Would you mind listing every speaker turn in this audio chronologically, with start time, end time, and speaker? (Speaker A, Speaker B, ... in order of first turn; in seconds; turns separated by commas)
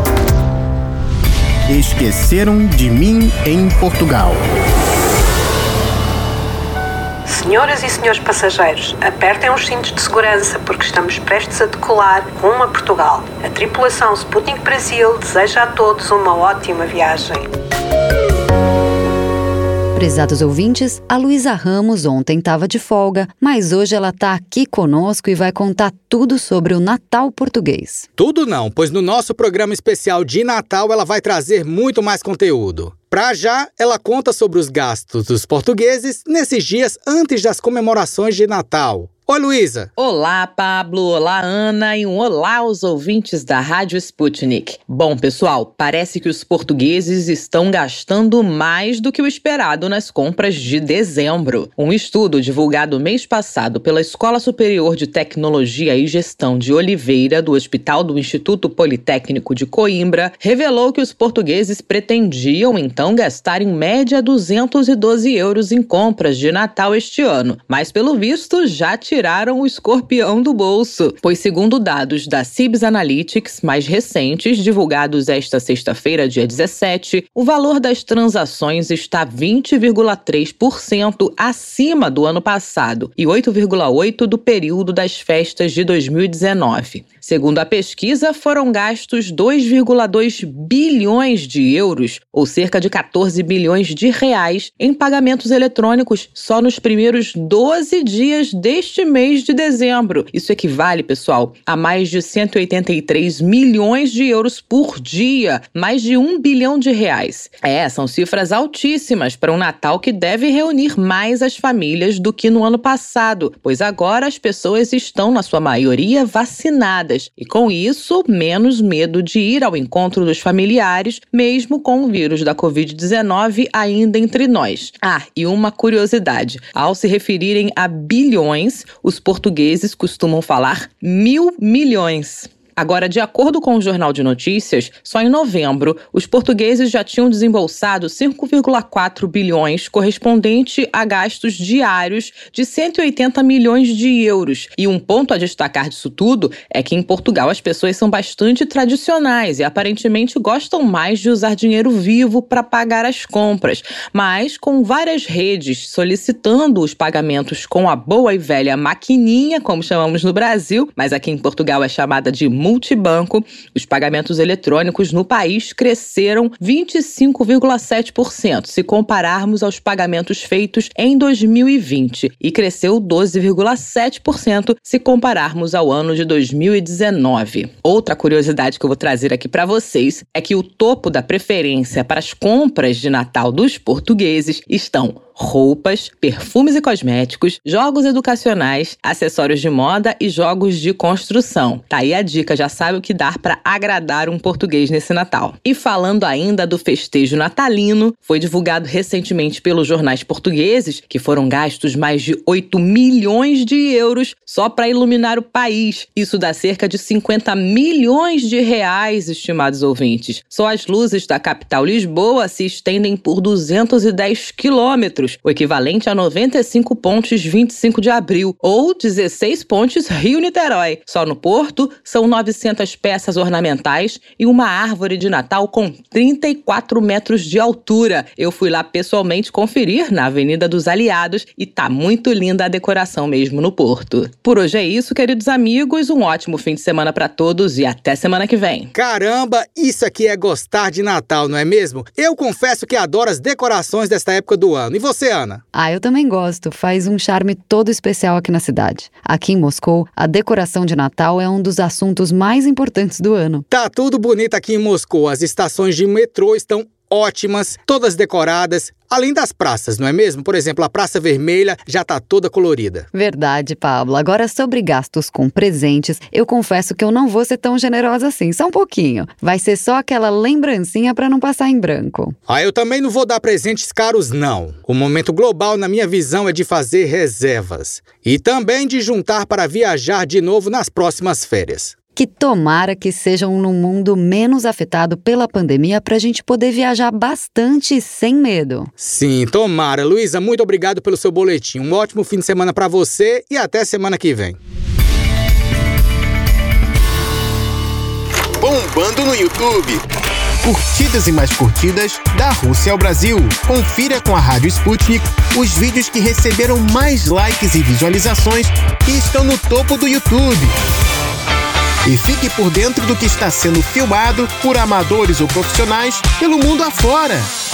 Speaker A: 1.7-4.4, Speaker B: 7.2-17.4, Speaker C: 19.9-28.1, Speaker D: 28.2-39.9, Speaker E: 40.0-238.9, Speaker D: 238.9-245.6, Speaker C: 245.7-253.7, Speaker D: 253.7-263.1, Speaker C: 263.1-272.4, Speaker D: 272.5-281.9, Speaker C: 282.1-288.9, Speaker D: 289.0-294.6, Speaker A: 298.6-300.0, Speaker A: 300.6-310.7, Speaker A: 312.1-317.5